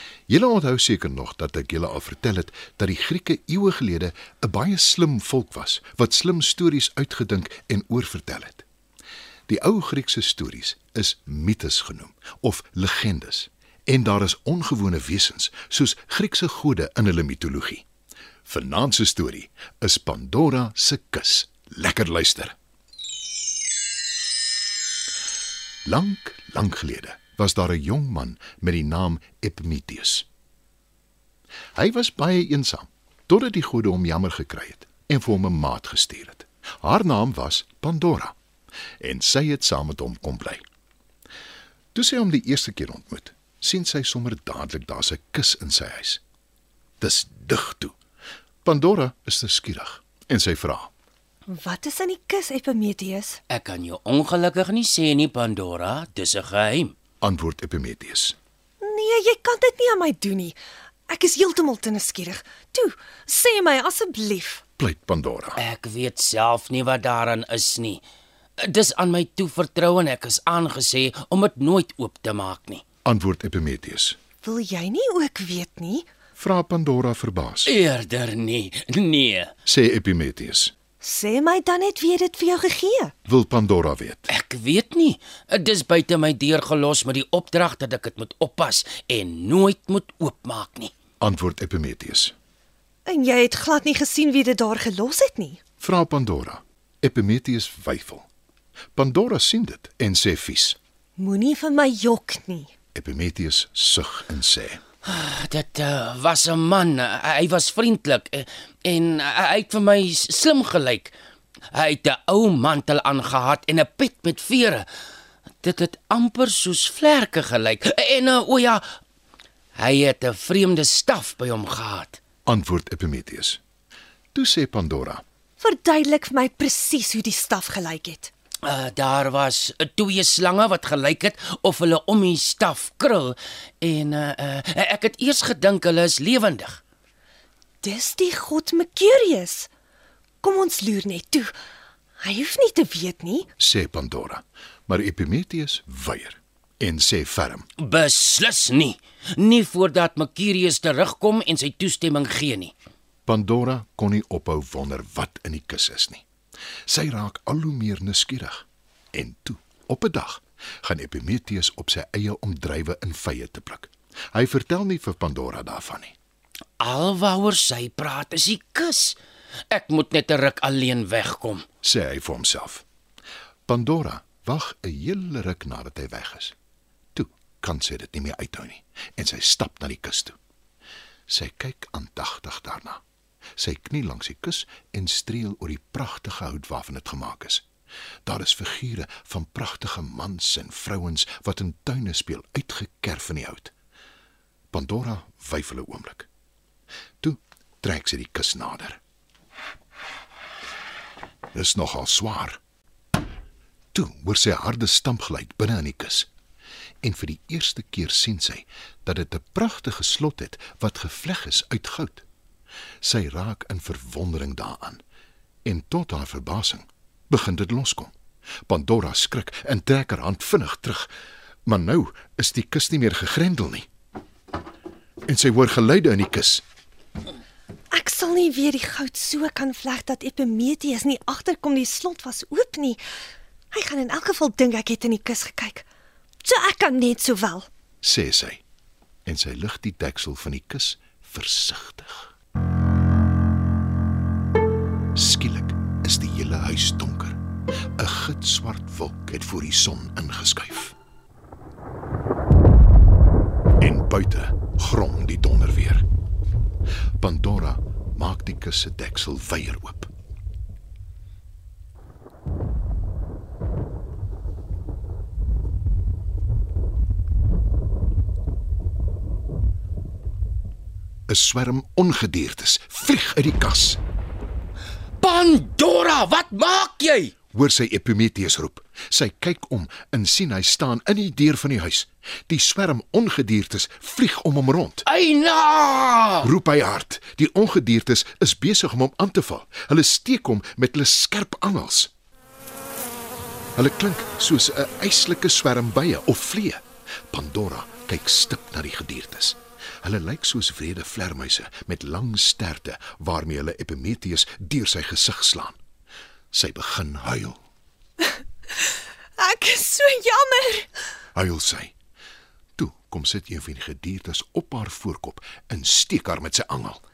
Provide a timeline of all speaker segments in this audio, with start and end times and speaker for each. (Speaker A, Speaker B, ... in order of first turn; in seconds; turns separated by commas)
Speaker A: 0.3-8.7, Speaker A: 9.5-17.9, Speaker A: 18.5-22.6, Speaker A: 25.9-30.3, Speaker A: 31.8-38.4, Speaker A: 39.0-40.6, Speaker A: 41.9-46.2, Speaker A: 47.0-48.0, Speaker A: 48.6-50.9, Speaker B: 51.5-53.4, Speaker C: 53.5-56.9, Speaker A: 57.2-58.4, Speaker B: 58.8-60.6, Speaker B: 61.1-64.6, Speaker A: 64.8-65.6, Speaker C: 65.6-68.0, Speaker C: 68.6-72.8, Speaker A: 73.0-74.2, Speaker B: 74.4-76.1, Speaker A: 76.4-77.7, Speaker C: 77.7-79.5, Speaker A: 79.7-80.7, Speaker B: 81.0-83.1, Speaker A: 83.2-84.3, Speaker C: 84.3-90.9, Speaker A: 91.2-92.3, Speaker B: 93.1-95.6, Speaker A: 95.8-98.3, Speaker A: 99.0-100.8, Speaker B: 101.2-102.7, Speaker A: 103.0-104.8, Speaker C: 105.0-111.1, Speaker C: 111.7-114.9, Speaker C: 115.6-118.8, Speaker C: 119.8-122.2, Speaker A: 122.5-123.6, Speaker A: 124.3-125.2, Speaker B: 125.6-128.3, Speaker C: 128.6-136.8, Speaker B: 137.8-139.7, Speaker B: 140.4-141.5, Speaker B: 142.2-143.5, Speaker A: 143.6-147.7, Speaker C: 147.8-152.7, Speaker A: 153.3-156.2, Speaker A: 156.9-166.2, Speaker C: 166.8-169.2, Speaker C: 169.7-171.7, Speaker A: 171.8-172.8, Speaker A: 173.7-176.6, Speaker A: 177.2-180.4, Speaker A: 181.3-183.0, Speaker A: 183.6-187.7, Speaker A: 188.2-193.7, Speaker A: 194.7-196.3, Speaker A: 197.2-199.0, Speaker A: 201.5-202.6, Speaker A: 203.9-206.3, Speaker A: 207.0-212.2, Speaker A: 213.0-215.0, Speaker A: 215.7-218.1, Speaker A: 218.7-221.1, Speaker A: 221.7-223.9, Speaker A: 225.3-226.6, Speaker B: 227.9-233.0, Speaker B: 233.7-235.9, Speaker B: 236.4-237.7, Speaker A: 238.0-238.6, Speaker A: 239.3-242.3, Speaker A: 245.2-247.4, Speaker A: 248.0-251.0, Speaker A: 253.8-256.1, Speaker A: 257.2-260.1, Speaker A: 271.3-274.0, Speaker C: 275.2-277.3, Speaker A: 277.5-285.1, Speaker C: 285.1-286.5, Speaker A: 286.4-292.1, Speaker A: 293.8-305.8, Speaker A: 306.5-307.6, Speaker B: 309.4-310.9, Speaker A: 311.4-311.9, Speaker A: 312.8-317.0